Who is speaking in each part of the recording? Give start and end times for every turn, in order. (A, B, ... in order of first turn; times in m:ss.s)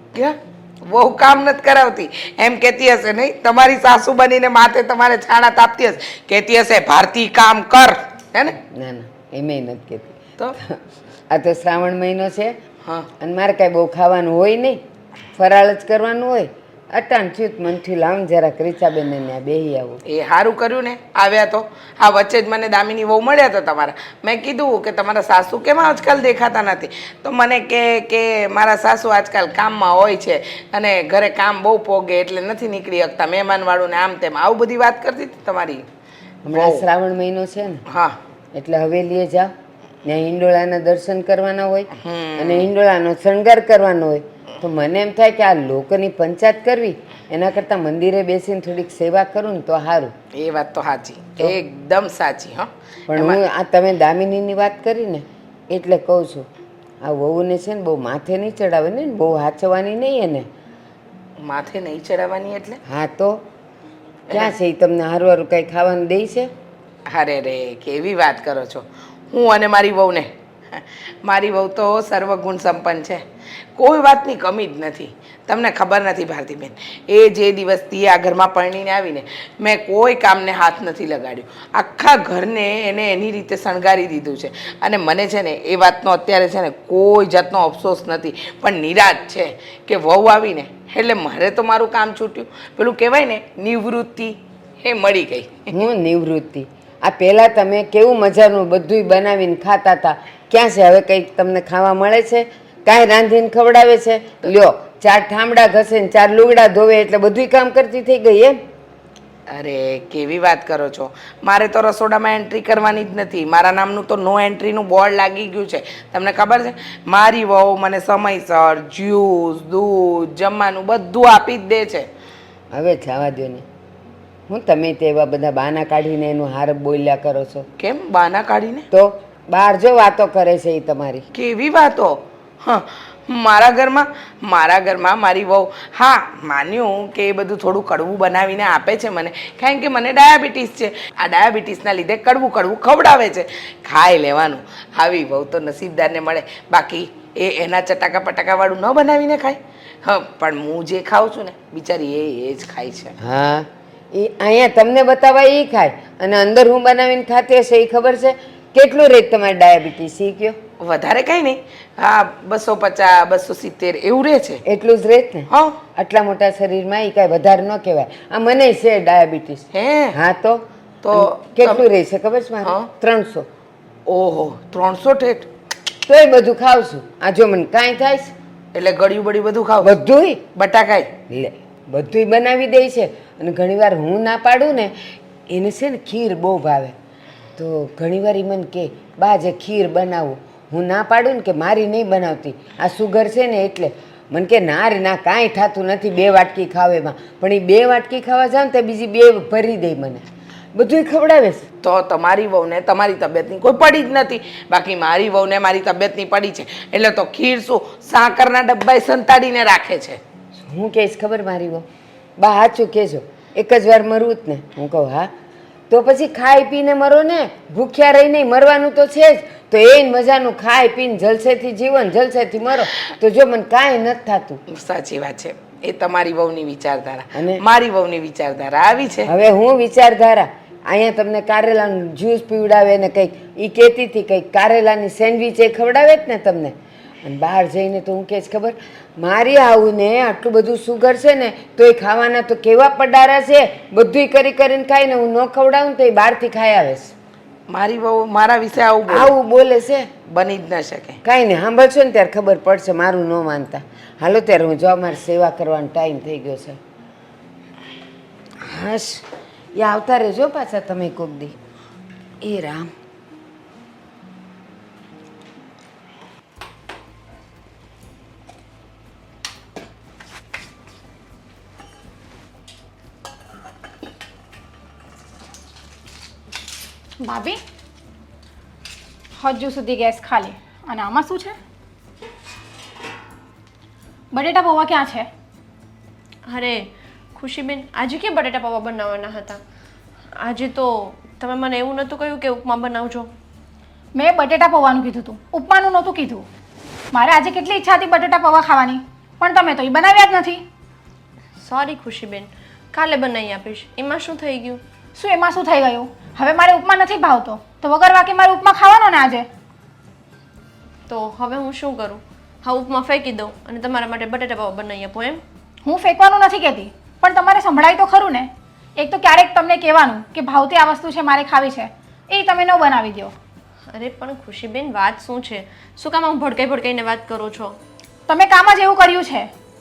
0:00.1-0:08.6 A
0:08.6-0:12.6 B
0:13.2-0:14.8 B
0:15.3-0:20.0 B
0:20.0-0:35.8 A
0:36.4-0:37.8 B
0:36.5-0:36.9 A
0:37.9-0:38.2 A
0:38.5-0:39.5 B
0:40.0-0:50.1 B
0:42.0-0:42.7 A
0:50.3-0:53.4 A
0:53.1-0:56.5 B
0:57.0-1:00.5 B
1:01.4-1:02.8 A
1:02.8-1:03.4 B
1:04.3-1:06.5 B
1:07.1-1:35.7 A
1:35.7-1:48.6 B
1:49.5-2:02.1 A
2:02.7-2:03.6 B
2:04.5-2:07.7 B
2:07.8-2:08.9 A
2:08.9-2:11.3 B
2:11.3-2:33.1 A
2:33.2-2:40.6 B
2:40.8-2:44.6 A
2:44.6-2:53.5 B
2:45.5-2:45.8 A
2:49.7-2:50.2 A
2:51.0-2:51.8 A
2:52.6-2:52.9 A
2:54.0-2:55.5 A
2:56.0-2:58.3 B
2:58.7-2:59.9 A
2:59.8-3:00.4 B
3:00.5-3:01.1 A
3:01.3-3:07.0 B
3:07.6-3:21.7 B
3:21.8-3:30.2 A
3:30.6-3:31.8 B
3:32.4-3:35.3 B
3:35.9-3:44.6 B
3:44.7-3:49.3 A
3:47.3-3:47.6 B
3:49.2-4:07.1 B
4:07.7-4:09.3 A
4:09.1-4:10.1 B
4:10.2-4:11.2 A
4:11.2-4:16.8 B
4:18.6-4:21.6 B
4:22.4-4:22.9 B
4:37.2-4:37.6 C
4:39.4-4:41.6 C
4:44.3-4:45.3 C
4:46.5-4:49.6 D
4:50.3-4:53.3 D
4:54.1-4:56.4 C
4:57.1-5:00.6 C
5:01.6-5:04.8 D
5:05.2-5:09.5 C
5:11.1-5:15.4 D
5:15.8-5:23.3 C
5:23.9-5:27.8 D
5:28.3-5:29.5 C